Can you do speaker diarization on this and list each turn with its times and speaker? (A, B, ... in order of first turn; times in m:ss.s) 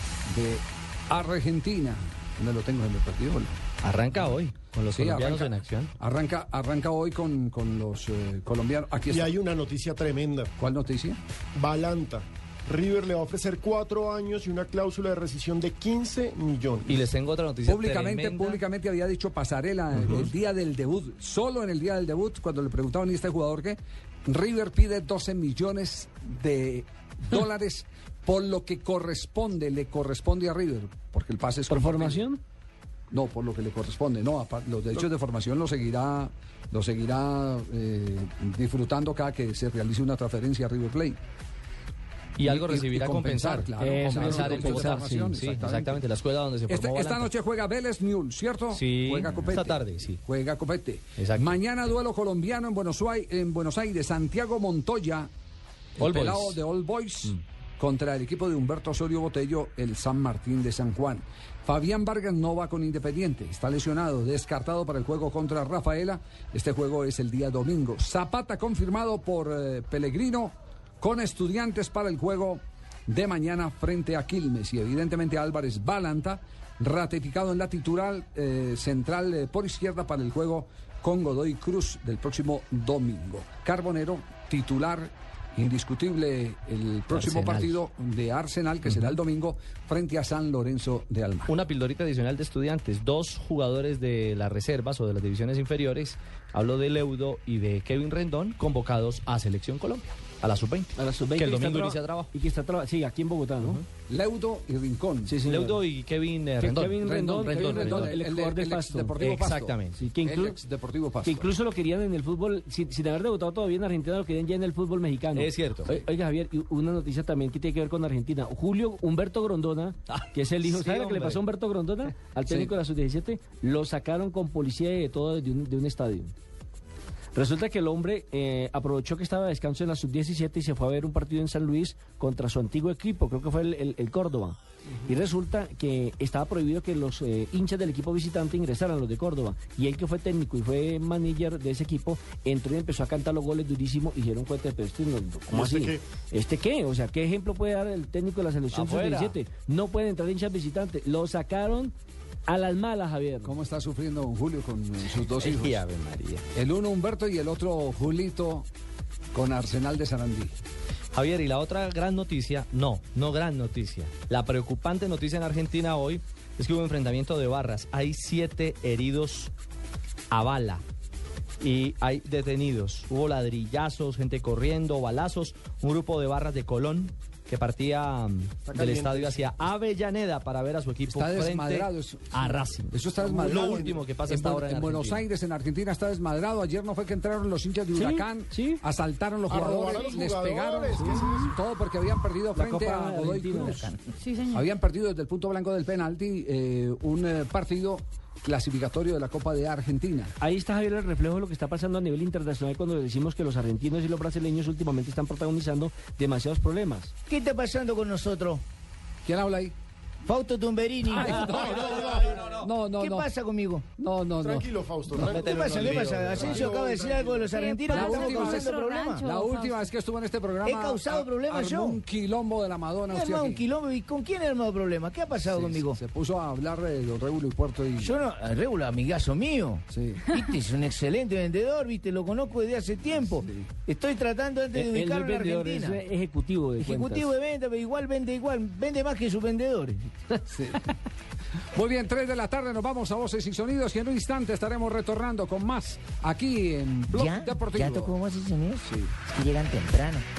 0:00.2-0:03.6 A
0:03.8-0:05.9 B
0:04.9-0:09.3 A
0:09.1-0:10.5 C
0:10.6-0:11.2 A
0:11.5-0:17.0 C
0:16.8-0:18.6 B
0:17.6-0:32.2 A
0:31.7-0:32.4 D
0:33.1-0:41.2 A
0:42.4-0:47.3 B
0:42.4-0:46.0 A
0:43.8-0:45.5 D
0:46.7-0:55.3 A
0:48.7-0:50.2 B
0:51.2-0:51.6 B
0:56.0-1:31.5 A
0:56.0-0:56.6 B
1:27.1-1:27.8 B
1:31.5-1:42.3 B
1:41.0-1:43.8 D
1:44.1-1:45.4 A
1:45.2-1:45.8 D
1:45.5-1:48.2 B
1:46.6-1:49.2 D
1:47.0-1:51.5 A
1:49.2-1:50.0 B
1:50.0-1:50.6 D
1:51.2-2:06.3 D
1:55.3-1:55.9 B
2:00.1-2:01.4 B
2:07.3-2:31.9 D
2:25.5-2:26.0 C
2:28.7-2:29.4 B
2:32.5-2:33.5 D
2:33.4-2:35.8 A
2:35.2-2:36.4 B
2:36.5-2:38.7 A
2:39.3-2:40.6 A
2:41.1-2:49.5 B
2:50.3-2:50.8 B
2:51.6-3:05.2 B
2:58.6-2:59.5 C
3:01.0-3:13.9 A
3:03.2-3:04.0 C
3:07.9-3:08.8 D
3:09.5-3:11.6 C
3:12.5-3:13.8 D
3:13.6-3:14.1 E
3:14.2-3:14.6 F
3:14.5-3:20.3 A
3:20.4-3:27.1 D
3:27.3-3:28.6 E
3:29.2-3:29.7 A
3:30.2-3:33.8 E
3:31.0-3:33.3 A
3:31.4-3:32.6 C
3:34.0-3:35.5 A
3:34.4-3:37.6 C
3:35.2-3:39.2 E
3:35.3-3:36.7 B
3:37.5-3:39.9 F
3:37.9-3:43.6 A
3:40.6-3:42.0 E
3:43.1-3:46.0 E
3:45.4-3:48.2 A
3:48.0-3:56.0 E
3:49.9-3:50.3 A
3:53.2-3:53.7 A
3:54.7-3:57.3 D
3:56.8-4:00.1 E
4:00.5-4:00.9 A
4:01.7-4:08.1 A
4:07.1-4:10.3 E
4:08.9-4:09.1 A